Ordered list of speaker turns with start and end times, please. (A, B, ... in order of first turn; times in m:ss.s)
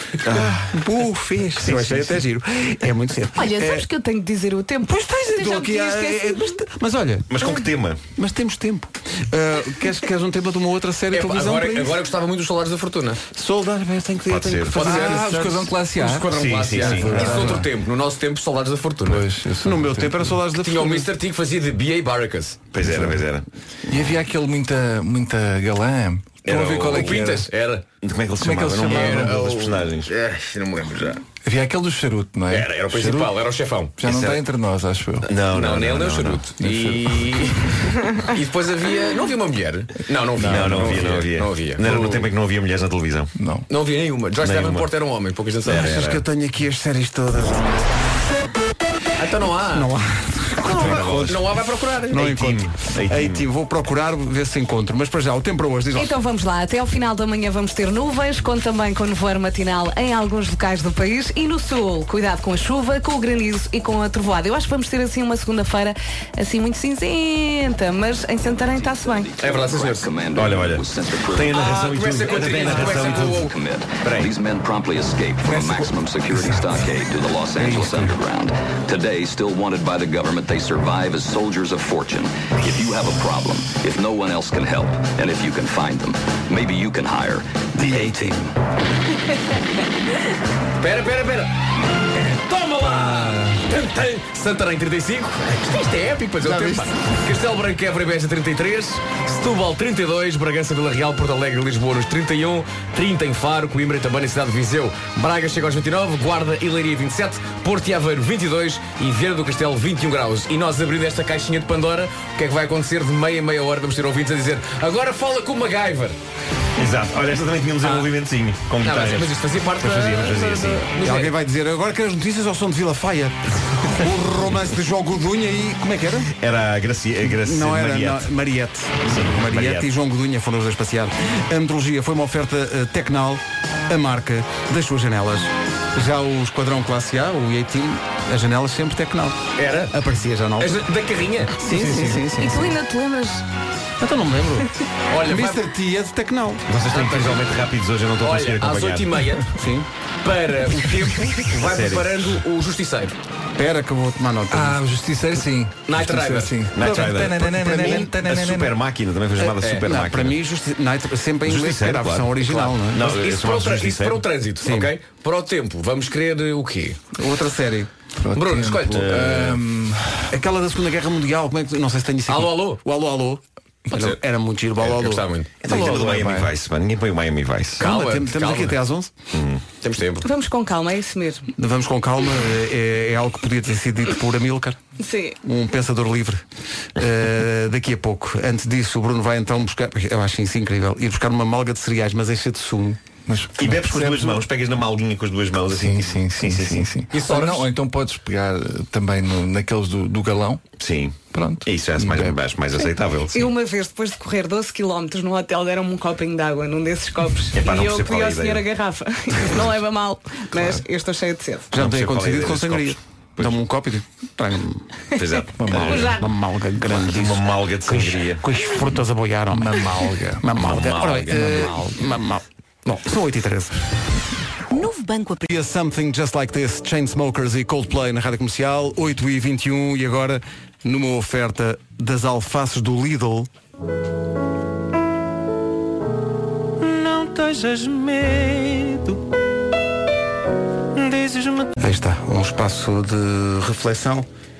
0:00.2-0:00.8 A
0:00.7-0:03.9 B
0:01.6-0:02.2 A
0:03.4-0:06.6 C
0:04.8-0:07.3 B
0:07.3-0:08.0 A
0:08.1-0:12.0 B
0:11.1-0:13.2 D
0:13.3-0:15.8 B
0:14.3-0:14.9 A
0:14.7-0:15.2 D
0:14.8-0:17.7 E
0:16.0-0:19.2 D
0:16.3-0:17.6 A
0:17.0-0:17.6 B
0:19.0-0:20.4 E
0:19.6-0:21.1 B
0:20.6-0:22.6 D
0:22.7-0:23.4 A
0:22.8-0:23.2 E
0:23.9-0:27.5 E
0:26.4-0:27.8 D
0:26.5-0:27.2 A
0:28.0-0:30.1 A
0:28.4-0:29.7 E
0:28.8-0:31.2 D
0:31.4-0:33.4 E
0:32.5-0:33.9 D
0:34.0-0:35.3 E
0:34.0-0:34.4 A
0:35.2-0:36.5 A
0:35.4-0:42.3 D
0:36.6-0:37.8 E
0:40.4-0:41.2 E
0:40.4-0:43.3 A
0:43.4-0:43.7 E
0:43.7-0:46.2 D
0:44.4-0:44.9 A
0:45.6-0:46.2 A
0:45.7-0:47.8 B
0:49.2-0:49.9 D
0:49.7-0:51.4 B
0:50.6-0:51.5 A
0:50.7-0:52.5 D
0:52.1-0:56.1 B
0:52.2-0:53.4 A
0:55.9-1:09.3 C
1:09.4-1:11.6 F
1:09.4-1:10.1 D
1:10.3-1:13.5 A
1:11.5-1:13.5 D
1:12.6-1:27.7 F
1:14.0-1:14.3 A
1:15.4-1:15.9 E
1:17.6-1:18.1 B
1:27.8-1:28.5 E
1:30.8-1:56.2 D
1:33.1-1:33.4 E
1:56.8-1:59.4 A
1:57.8-1:58.1 D
1:58.8-2:01.3 D
1:59.8-2:06.3 B
2:00.1-2:00.9 A
2:06.4-2:08.3 A
2:07.4-2:20.8 B
2:09.0-2:09.9 A
2:19.6-2:19.9 D
2:20.6-2:21.7 D
2:21.6-2:22.8 B
2:21.7-2:22.2 E
2:22.4-2:23.4 C
2:24.0-2:24.7 B
2:25.1-2:25.6 D
2:25.2-2:26.6 B
2:26.7-2:29.2 A
2:26.9-2:29.5 D
2:29.5-2:29.9 B
2:30.2-2:33.2 D
2:31.5-2:32.2 A
2:33.6-2:34.8 B
2:34.5-2:38.8 E
2:35.9-2:36.6 D
2:36.7-2:40.4 A
2:37.6-2:38.1 B
2:39.4-2:43.1 B
2:39.6-2:39.8 D
2:41.4-2:44.2 A
2:42.4-2:47.0 D
2:44.6-2:44.9 B
2:47.1-2:47.9 B
2:48.2-2:50.3 E
2:48.3-2:49.1 D
2:48.8-2:49.6 A
2:50.3-2:55.2 B
2:52.3-2:52.8 D
2:53.9-2:54.2 D
2:54.8-2:56.1 D
2:55.6-2:57.8 A
2:55.6-2:56.5 E
2:57.8-2:58.8 D
2:57.8-2:59.1 B
2:59.3-2:59.6 A
2:59.8-3:00.2 D
3:00.2-3:01.5 C
3:01.6-3:04.8 B
3:05.0-3:05.4 C
3:05.4-3:06.4 B
3:07.0-3:13.0 B
3:13.2-3:14.4 E
3:13.5-3:17.0 A
3:15.7-3:20.6 E
3:17.1-3:17.7 D
3:20.8-3:23.5 A
3:21.3-3:22.4 E
3:23.3-3:31.7 C
3:27.5-3:28.7 A
3:30.6-3:30.8 E
3:31.7-3:34.8 B
3:31.7-3:33.6 A
3:35.2-3:36.2 A
3:35.2-3:36.3 C
3:35.5-3:36.1 E
3:36.1-3:43.8 B
3:36.8-3:38.5 A
3:39.5-3:40.5 E
3:40.5-3:41.8 A
3:45.2-3:53.5 B
3:58.0-3:59.0 E
4:01.0-4:01.5 E
4:01.8-4:04.3 B